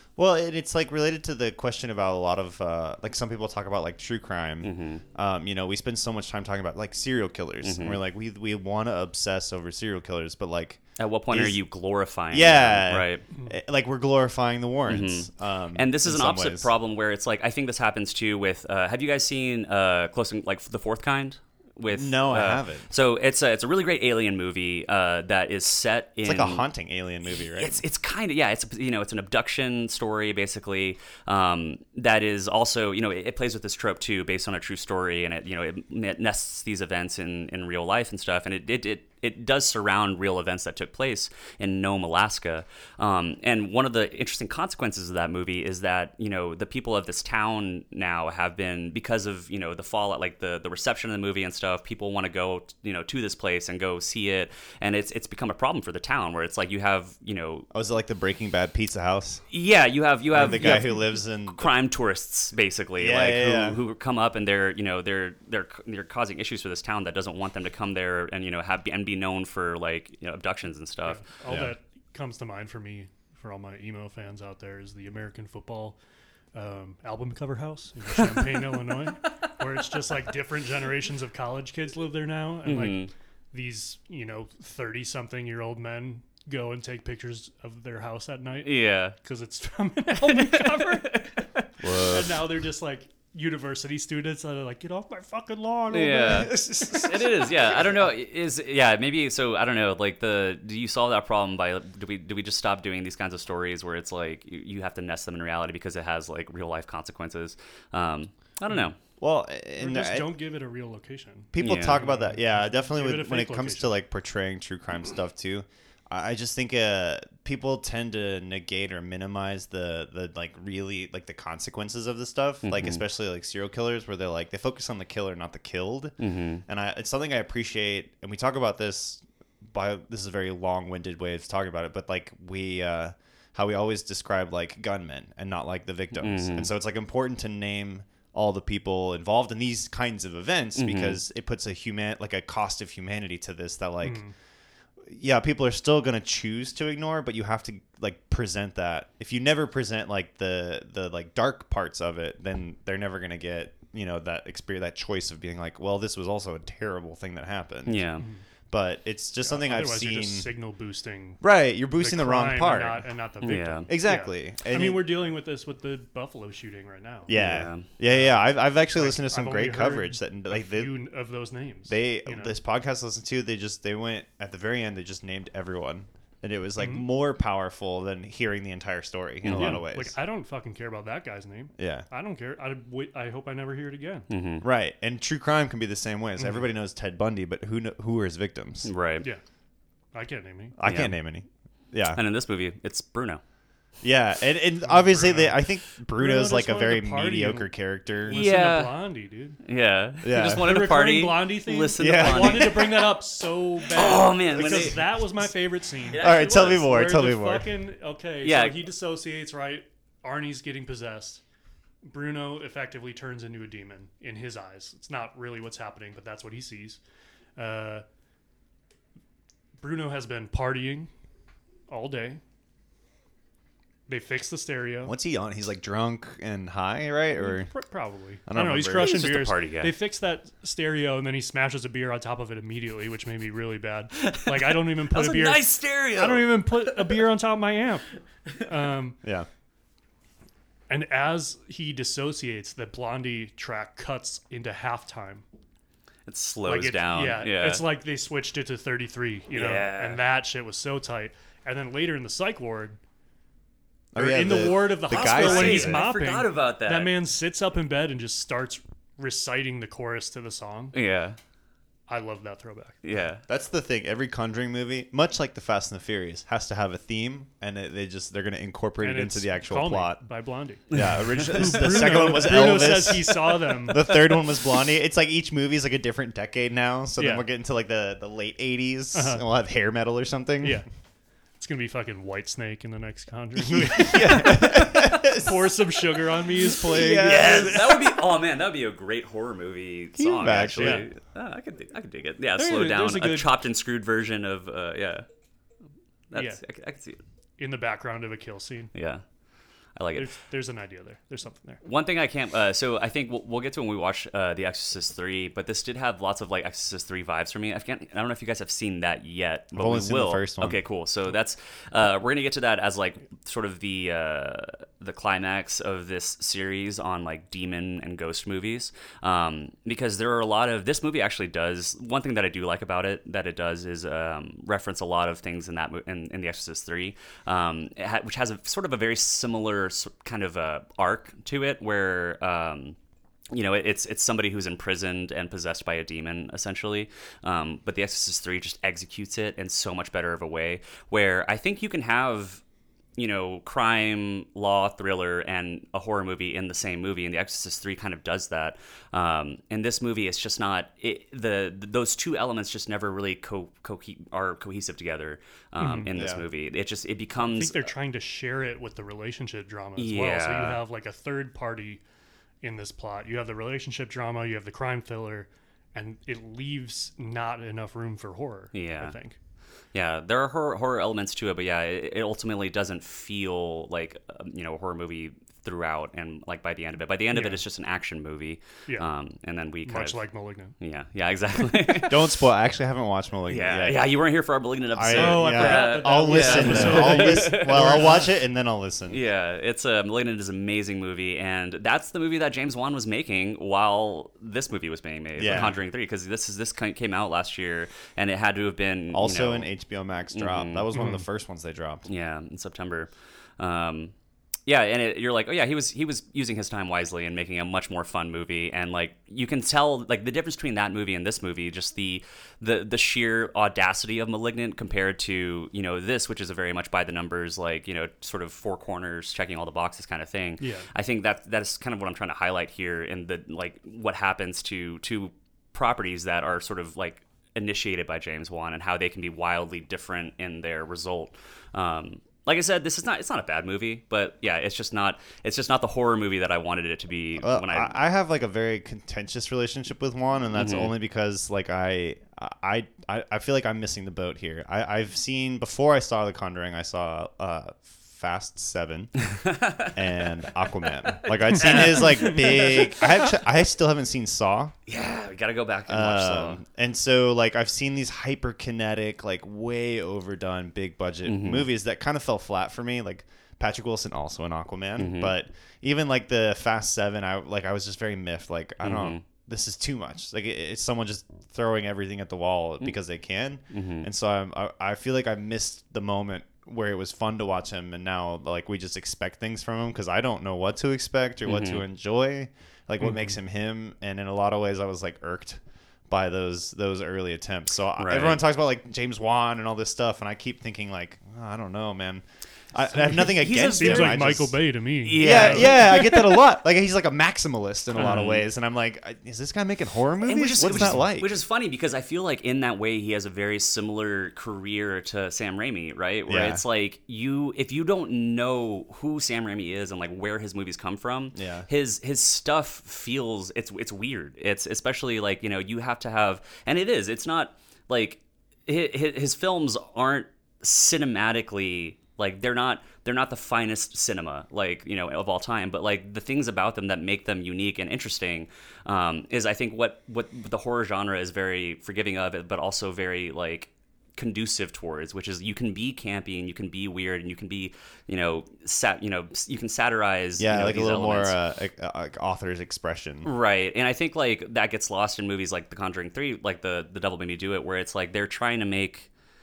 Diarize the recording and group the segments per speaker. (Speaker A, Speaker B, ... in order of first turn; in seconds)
Speaker A: 0.2-11.6, 12.3-16.7, 21.9-22.9, 26.2-27.8, 57.7-59.4, 60.3-61.7, 63.0-63.8, 71.5-71.7, 91.8-92.3, 109.2-110.3, 111.5-144.2, 145.1-158.0, 158.7-160.5, 161.4-163.1, 163.9-165.0, 167.3-170.9, 171.9-180.1, 181.8-182.1, 184.6-188.9, 190.8-192.2, 194.0-198.4, 200.2-200.8, 202.0-202.9, 204.5-205.0, 206.2-207.7, 225.0-227.7, 228.5-229.3, 239.2-239.5, 254.1-256.1, 263.5-270.2, 270.9-280.8, 283.6-287.9, 290.1-291.1, 309.7-310.8, 356.1-356.4, 382.1-384.1, 384.9-389.2, 395.4-395.8, 399.1-402.1, 437.4-449.1, 449.9-454.7, 455.9-494.6, 495.1-501.3, 506.3-506.6, 511.3-511.7, 540.4-543.3
Speaker B: 4.6-5.0, 7.6-8.0, 11.0-13.2, 14.9-26.7, 27.3-57.6, 59.5-71.2, 82.6-83.1, 88.6-89.2, 90.2-91.6, 95.9-109.0, 111.6-112.0, 122.6-123.0, 126.2-126.6, 136.1-136.7, 140.8-141.2, 157.9-158.2, 163.4-163.9, 167.3-167.9, 179.4-179.8, 184.3-184.6, 188.8-189.2, 190.8-191.2, 192.1-193.4, 198.3-199.0, 199.6-203.1, 203.9-205.0, 206.1-206.9, 208.4-208.8, 228.9-229.9, 234.1-237.2, 246.3-247.8, 249.5-250.2, 255.0-257.1, 260.9-261.4, 263.0-263.4, 270.9-271.2, 286.9-295.2, 296.3-297.2, 298.9-299.2, 299.9-300.3, 301.8-332.9, 333.5-342.6, 343.2-357.9, 360.0-360.8, 368.7-369.1, 369.9-380.2, 380.8-382.3, 383.5-388.2, 389.1-399.7, 400.3-400.9, 402.1-404.1, 404.6-438.0, 440.5-440.9, 449.3-450.0, 451.5-452.8, 454.9-456.6, 461.2-461.7, 465.0-465.3, 468.8-469.2, 473.7-474.1, 481.4-481.8, 488.0-488.4, 493.1-494.4, 495.0-496.4, 497.9-498.4, 500.2-541.4, 543.2-549.1
Speaker C: 71.0-76.0, 76.5-97.5, 109.8-113.9, 144.0-144.3, 159.4-161.4, 162.0-167.3, 168.0-172.5, 176.8-177.1, 179.5-184.2, 186.4-186.7, 190.1-190.8, 194.8-195.6, 196.1-199.6, 200.4-211.4, 212.0-217.0, 217.6-218.0, 219.8-221.1, 221.9-222.4, 224.1-225.1, 227.4-238.1, 238.6-239.2, 240.9-245.4, 246.7-253.0, 254.1-260.9, 262.1-263.0, 269.0-274.3, 277.2-277.4, 279.1-279.4, 280.6-280.9, 281.6-288.3, 290.8-291.1, 292.6-293.6, 296.3-296.6, 297.6-298.9, 300.1-301.8, 355.8-356.1, 357.4-362.0, 362.6-369.4, 377.3-377.6, 379.8-380.7, 385.1-388.3, 400.9-401.2, 420.6-420.9, 483.0-483.3, 493.8-496.0